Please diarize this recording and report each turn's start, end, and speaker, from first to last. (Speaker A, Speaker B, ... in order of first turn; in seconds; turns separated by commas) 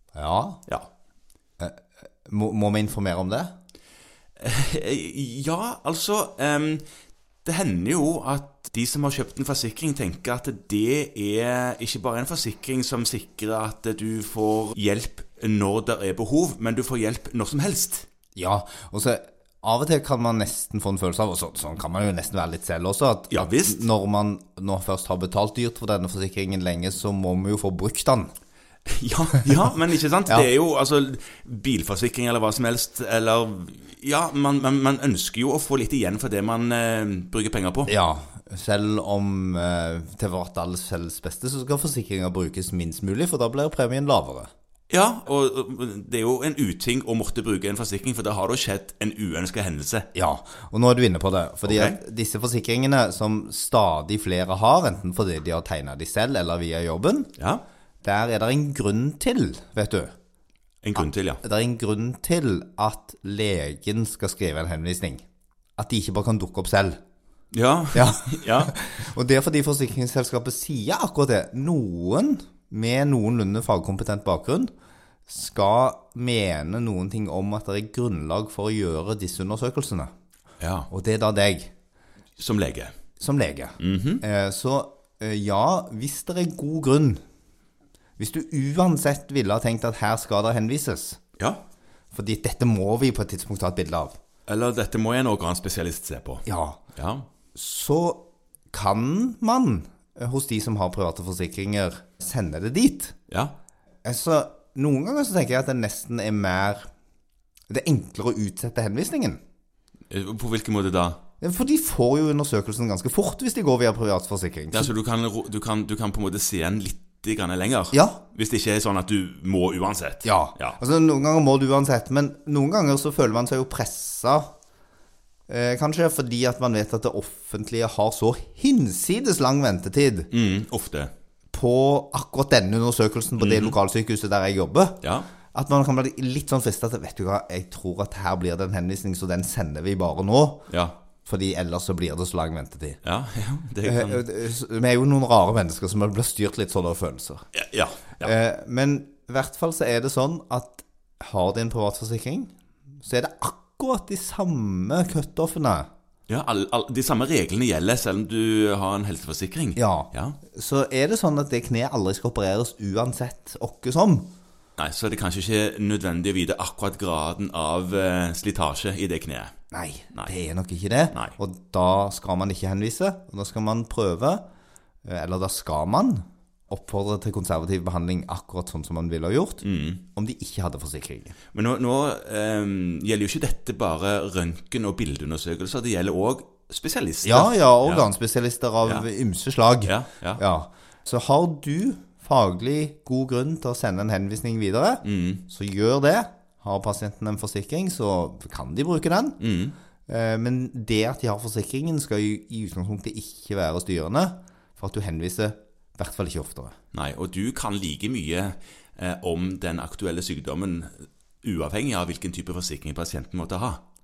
Speaker A: 0.1-0.6, Speaker A: 1.6-3.5, Speaker B: 4.4-6.8, Speaker B: 7.4-18.1, Speaker A: 18.3-28.3, Speaker B: 23.3-23.9, Speaker B: 28.9-37.9, Speaker A: 37.9-44.5, Speaker B: 44.9-50.1, Speaker A: 50.1-57.3, Speaker B: 51.6-52.0, Speaker B: 57.4-57.6, Speaker A: 58.0-60.1, Speaker B: 60.8-61.4, Speaker A: 61.4-65.2, Speaker A: 65.8-67.0, Speaker B: 67.5-68.7, Speaker A: 67.9-74.7, Speaker A: 75.3-80.1, Speaker B: 80.6-80.9, Speaker A: 80.9-81.7, Speaker B: 82.4-82.9, Speaker A: 83.2-87.2, Speaker B: 83.8-84.2, Speaker A: 88.2-91.2, Speaker A: 92.1-94.2, Speaker B: 94.5-96.4, Speaker A: 96.5-96.8, Speaker B: 97.0-97.3, Speaker A: 97.5-103.1, Speaker B: 103.3-103.5, Speaker A: 104.0-106.9, Speaker A: 107.7-109.4, Speaker B: 110.1-111.2, Speaker A: 111.4-114.9, Speaker B: 114.7-120.8, Speaker A: 117.9-118.2, Speaker A: 120.2-124.5, Speaker A: 125.5-130.3, Speaker B: 130.3-131.1, Speaker A: 131.5-135.0, Speaker B: 133.4-133.7, Speaker B: 135.0-135.3, Speaker A: 135.5-140.7, Speaker B: 140.7-140.9, Speaker A: 141.2-143.0, Speaker B: 143.0-144.2, Speaker A: 143.8-147.4, Speaker B: 147.5-148.3, Speaker A: 148.2-155.9, Speaker B: 156.3-160.4, Speaker A: 159.8-164.3, Speaker B: 164.8-169.5, Speaker A: 169.7-174.4, Speaker A: 175.1-181.4, Speaker B: 179.6-180.0, Speaker B: 181.5-188.1, Speaker A: 187.2-199.4, Speaker B: 189.8-190.4, Speaker B: 195.0-195.4, Speaker B: 199.4-199.7, Speaker A: 200.1-206.7, Speaker B: 206.9-213.8